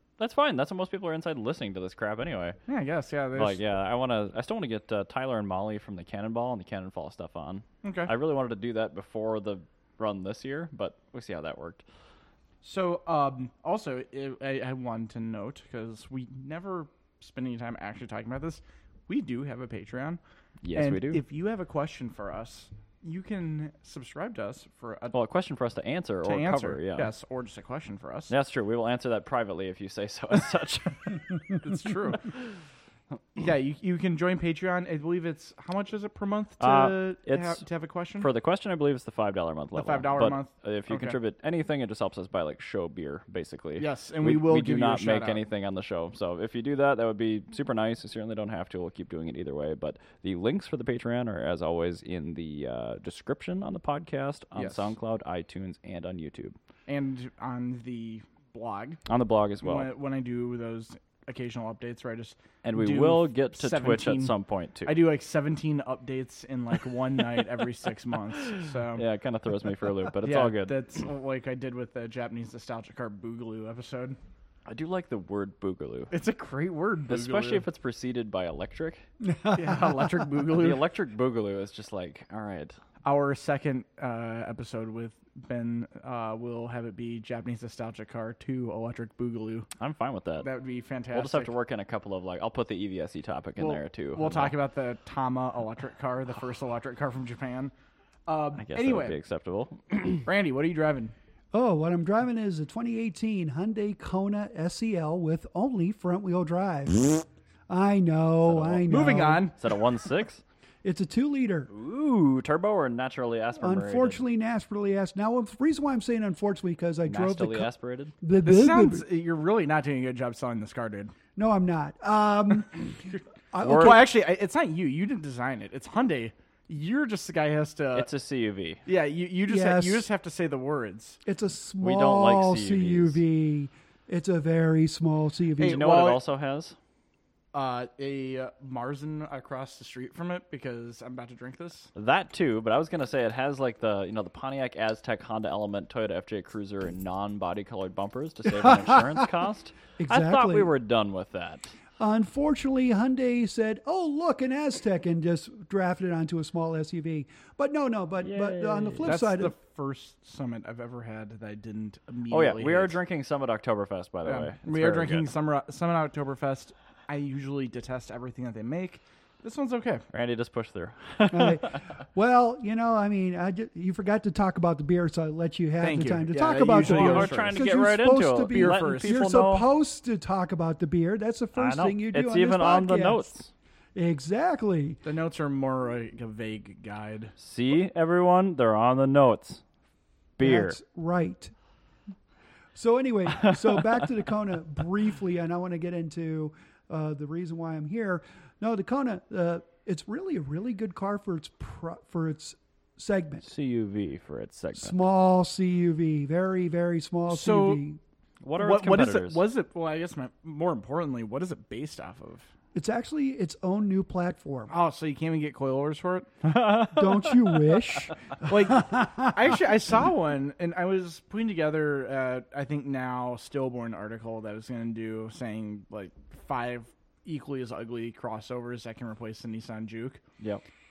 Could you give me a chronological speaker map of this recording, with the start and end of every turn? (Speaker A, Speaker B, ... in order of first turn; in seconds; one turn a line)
Speaker A: 0.2-2.6
Speaker B: 2.7-3.6
Speaker A: 3.4-11.8
Speaker B: 7.8-8.1
Speaker B: 12.6-20.2
Speaker A: 20.6-21.2
Speaker B: 20.7-25.1
Speaker A: 25.1-27.1
Speaker B: 26.2-28.3
Speaker A: 28.3-31.5
Speaker B: 31.6-32.3
Speaker B: 33.4-38.3
Speaker A: 36.6-37.6
Speaker A: 38.2-56.5
Speaker B: 39.8-41.2
Speaker B: 43.8-45.4
Speaker B: 54.5-54.9
Speaker B: 56.9-59.0
Speaker A: 59.1-59.9
Speaker B: 59.6-69.0
Speaker A: 62.6-65.0
Speaker A: 69.0-70.8
Speaker B: 70.2-74.2
Speaker A: 74.7-76.1
Speaker B: 76.1-77.6
Speaker A: 77.1-79.0
Speaker C: 79.2-80.3
Speaker B: 79.5-80.8
Speaker A: 80.5-82.8
Speaker B: 83.0-89.7
Speaker A: 89.8-90.5
Speaker B: 90.4-91.5
Speaker A: 91.1-94.6
Speaker B: 93.6-97.7
Speaker B: 98.3-99.2
Speaker A: 98.6-100.3
Speaker B: 100.2-101.1
Speaker C: 101.5-109.5
Speaker A: 108.5-108.9
Speaker B: 108.9-109.6
Speaker A: 109.6-110.4
Speaker C: 110.8-111.7
Speaker A: 111.7-114.2
Speaker C: 113.6-117.7
Speaker A: 117.1-118.1
Speaker C: 118.2-119.1
Speaker B: 118.4-121.1
Speaker C: 121.4-124.1
Speaker B: 123.1-128.1
Speaker A: 123.6-124.0
Speaker A: 128.0-128.8
Speaker B: 128.8-131.2
Speaker C: 129.5-130.1
Speaker C: 131.2-135.8
Speaker A: 131.8-133.2
Speaker B: 135.6-136.2
Speaker A: 135.6-136.8
Speaker B: 137.5-141.9
Speaker A: 141.9-151.7
Speaker C: 148.5-149.3
Speaker C: 150.0-150.7
Speaker C: 152.0-159.6
Speaker A: 158.2-159.2
Speaker B: 159.0-163.0
Speaker A: 162.3-165.3
Speaker B: 164.2-170.1
Speaker A: 170.1-171.9
Speaker C: 171.3-183.3
Speaker B: 175.8-177.7
Speaker A: 176.8-179.7
Speaker B: 178.5-179.2
Speaker A: 181.6-183.5
Speaker C: 183.9-185.0
Speaker B: 185.0-187.3
Speaker A: 187.4-189.6
Speaker A: 190.4-190.8
Speaker C: 190.4-191.5
Speaker C: 192.8-203.5
Speaker A: 193.3-194.1
Speaker A: 203.4-205.0
Speaker C: 204.8-208.0
Speaker B: 207.3-207.8
Speaker A: 208.4-209.4
Speaker B: 208.6-212.5
Speaker C: 212.7-214.7
Speaker B: 214.7-216.3
Speaker A: 216.4-218.1
Speaker C: 216.7-219.4
Speaker B: 218.4-230.2